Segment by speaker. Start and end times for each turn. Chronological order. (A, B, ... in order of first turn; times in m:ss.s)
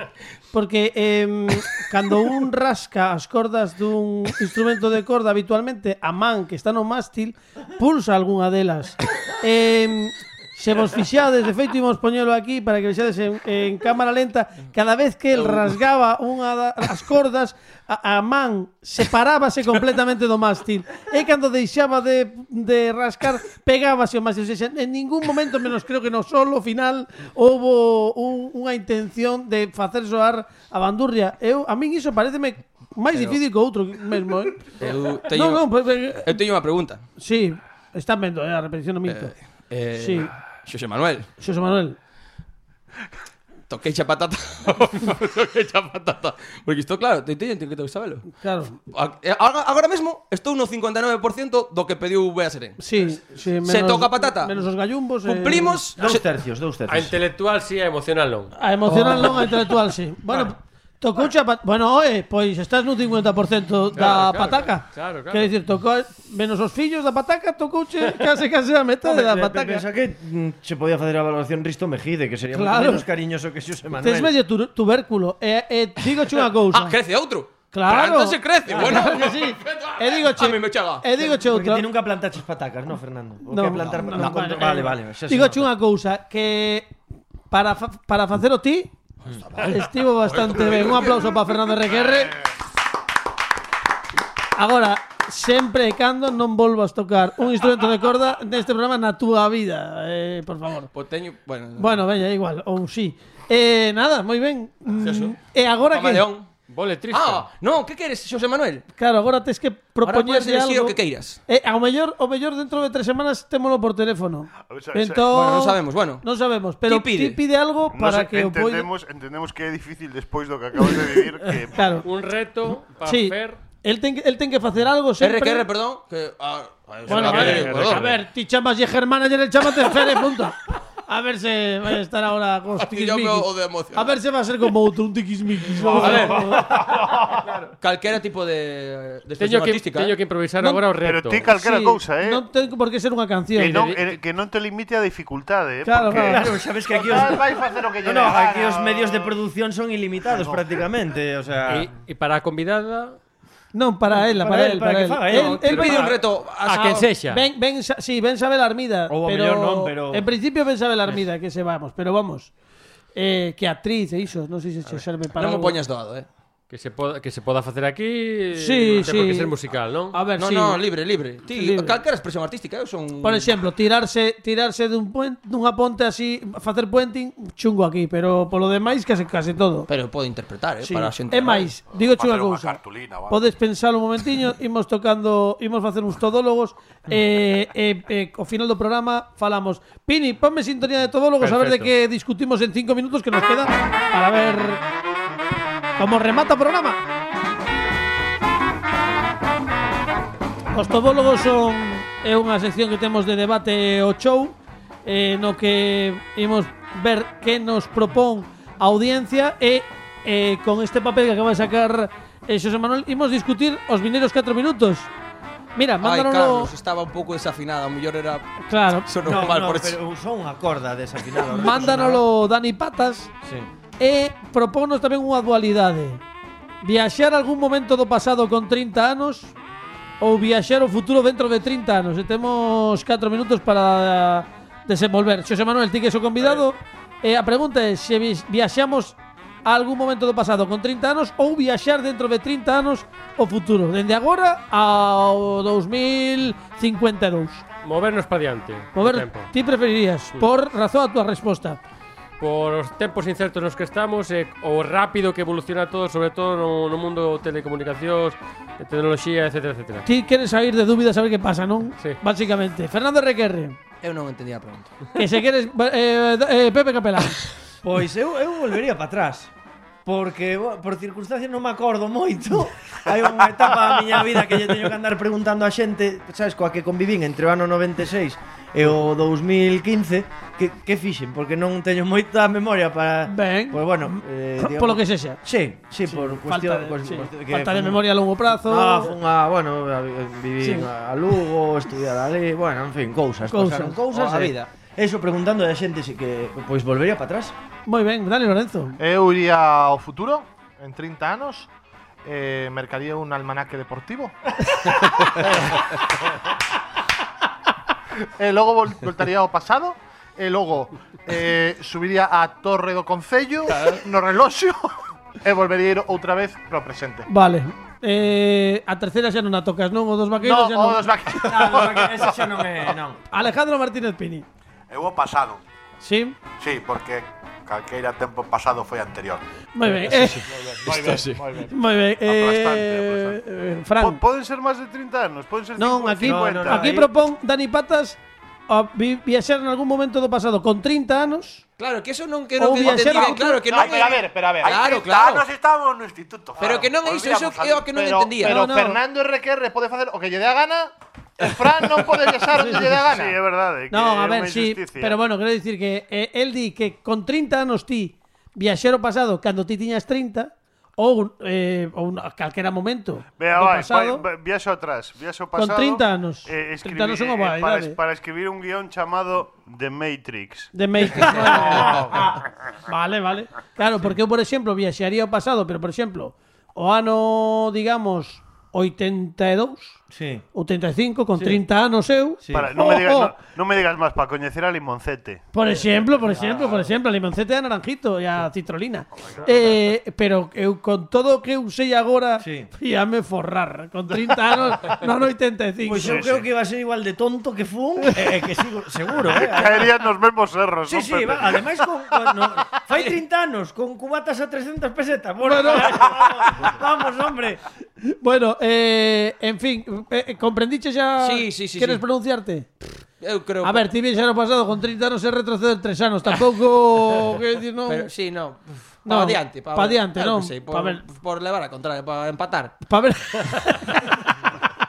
0:00.5-0:36.4 A
0:15.3-0:15.7 B
0:33.1-0:33.4 B
0:34.8-0:37.0 B
0:37.2-0:39.3 A
0:39.0-0:41.3 B
0:39.9-0:40.3 A
0:41.4-0:42.0 A
0:43.7-0:48.3 B
0:48.3-0:48.8 A
0:48.9-0:52.8 B
0:52.8-0:55.8 A
0:53.6-0:54.6 B
0:55.2-0:56.2 B
0:56.0-0:57.1 C
0:56.9-0:58.5 D
0:58.5-1:09.8 A
1:03.9-1:05.5 D
1:09.0-1:14.3 C
1:12.5-1:13.0 A
1:14.0-1:17.0 A
1:16.7-1:21.0 B
1:17.7-1:21.9 A
1:18.7-1:19.1 C
1:21.2-1:25.6 C
1:23.5-1:26.9 A
1:23.8-1:24.4 B
1:27.5-1:28.9 A
1:29.2-1:31.3 B
1:29.6-1:32.4 A
1:34.6-1:40.9 A
1:40.9-1:42.0 B
1:41.8-1:46.3 A
1:45.0-1:45.3 B
1:45.9-1:46.5 B
1:46.7-1:47.5 D
1:47.1-1:48.8 B
1:49.0-1:58.9 A
1:50.0-1:51.4 B
1:54.7-1:55.3 E
1:55.3-1:56.2 B
1:56.8-1:57.4 B
1:57.9-2:02.0 E
2:01.7-2:02.0 A
2:02.0-2:03.6 D
2:03.0-2:05.6 A
2:05.2-2:08.0 B
2:07.1-2:16.8 A
2:07.1-2:08.0 D
2:07.7-2:08.0 E
2:12.8-2:14.2 B
2:15.8-2:17.5 C
2:16.0-2:16.4 B
2:16.1-2:16.4 D
2:17.4-2:20.2 B
2:19.4-2:21.5 D
2:21.0-2:22.4 E
2:21.5-2:23.9 A
2:23.6-2:26.6 E
2:23.7-2:24.1 D
2:25.8-2:26.5 A
2:26.2-2:31.9 C
2:26.9-2:29.4 F
2:30.3-2:30.6 F
2:31.7-2:33.2 D
2:33.7-2:36.1 A
2:34.1-2:36.1 C
2:35.3-2:37.1 B
2:35.6-2:37.4 D
2:37.3-2:42.5 A
2:39.1-2:40.2 C
2:43.2-2:45.8 A
2:45.3-2:46.3 B
2:46.7-2:50.2 D
2:48.6-2:49.5 A
2:50.1-2:50.8 A
2:50.4-2:53.6 B
2:51.5-2:52.0 A
2:53.2-2:59.9 A
2:59.9-3:01.7 B
3:00.8-3:14.8 A
3:01.9-3:03.4 G
3:11.4-3:11.9 D
3:16.0-3:17.0 A
3:20.7-3:35.1 A
3:35.8-3:36.7 A
3:36.0-3:38.5 B
3:38.7-3:39.1 A
3:39.0-3:40.0 B
3:39.2-3:42.2 C
3:41.5-3:43.3 A
3:43.4-3:43.7 C
3:44.0-3:46.2 A
3:46.8-3:49.5 A
3:50.2-4:07.6 A
4:07.8-4:09.5 D
4:08.9-4:11.8 A
4:12.4-4:20.0 D
4:20.0-4:23.8 A
4:24.0-4:24.9 B
4:25.1-4:27.4 A
4:27.8-4:29.5 C
4:30.0-4:57.5 C
4:43.3-4:45.4 A
4:46.0-4:49.2 A
4:50.6-4:50.9 A
4:53.5-4:54.0 A
4:54.1-4:54.6 B
4:57.9-4:59.0 A
4:59.0-5:01.7 F
5:02.2-5:05.8 F
5:08.4-5:17.3 F
5:17.3-5:21.1 A
5:20.4-5:22.5 F
5:21.4-5:23.2 C
5:23.3-5:24.4 A
5:24.9-5:25.6 G
5:26.0-5:26.4 A
5:26.6-5:29.4 G
5:29.7-5:30.5 A
5:30.6-5:31.7 E
5:30.8-5:31.4 B
5:31.6-5:34.2 A
5:32.3-5:33.4 F
5:32.4-5:33.2 E
5:34.0-5:37.0 E
5:35.8-5:41.6 A
5:36.2-5:37.1 C
5:41.8-5:45.5 B
5:42.6-5:43.6 A
5:43.7-5:44.7 F
5:43.7-5:48.1 G
5:46.6-5:48.5 B
5:46.6-5:46.9 F
5:47.9-5:53.4 F
5:48.4-5:49.0 A
5:52.6-5:53.0 A
5:53.0-5:55.2 E
5:53.9-6:04.2 A
6:03.4-6:11.8 E
6:05.6-6:08.0 A
6:10.7-6:12.3 A
6:11.2-6:12.2 B
6:11.7-6:12.4 C
6:12.9-6:20.0 A
6:20.1-6:20.4 C
6:20.5-6:23.3 A
6:22.4-6:22.8 C
6:22.5-6:25.4 E
6:25.5-6:36.2 A
6:32.4-6:32.7 C
6:35.8-6:40.0 C
6:36.0-6:36.5 E
6:39.3-6:41.8 E
6:40.9-6:47.6 C
6:42.9-6:43.2 B
6:45.4-6:46.3 A
6:48.0-6:53.0 A
6:51.2-6:52.0 B
6:53.2-6:53.9 B
6:53.6-6:58.1 A
6:57.8-7:02.8 B
6:59.0-7:01.0 A
7:02.9-7:04.5 A